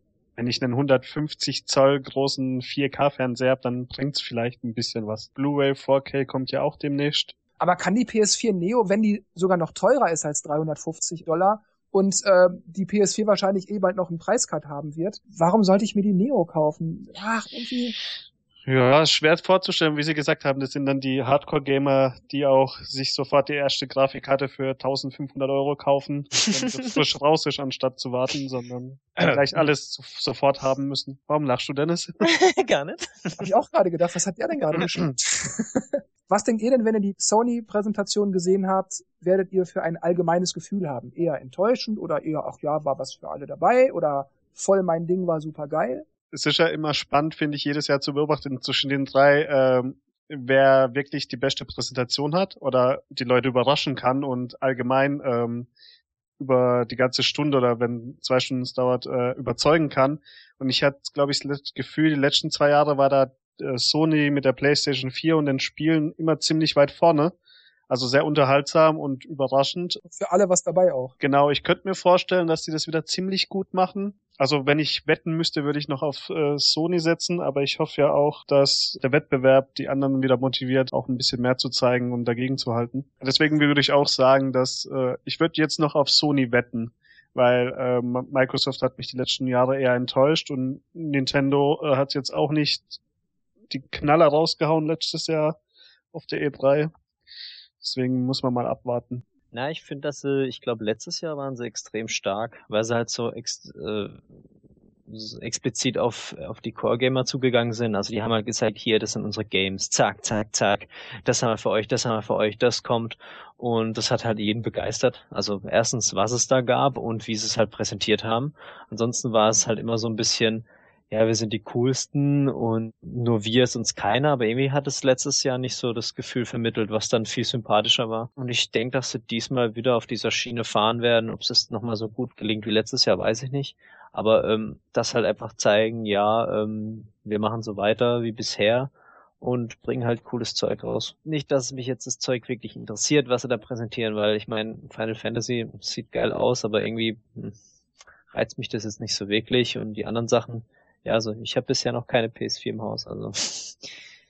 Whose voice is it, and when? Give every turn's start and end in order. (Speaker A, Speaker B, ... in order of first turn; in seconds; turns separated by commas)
Speaker A: 0.4-7.3, Speaker B: 7.6-17.9, Speaker A: 18.6-32.2, Speaker C: 32.2-33.5, Speaker B: 33.4-46.0, Speaker A: 46.3-55.7, Speaker A: 56.4-67.3, Speaker A: 67.9-70.0, Speaker B: 70.0-71.1, Speaker A: 71.2-93.0, Speaker A: 93.7-95.6, Speaker A: 96.1-96.9, Speaker A: 97.8-99.2, Speaker C: 99.5-104.4, Speaker C: 105.1-147.6, Speaker C: 148.3-153.9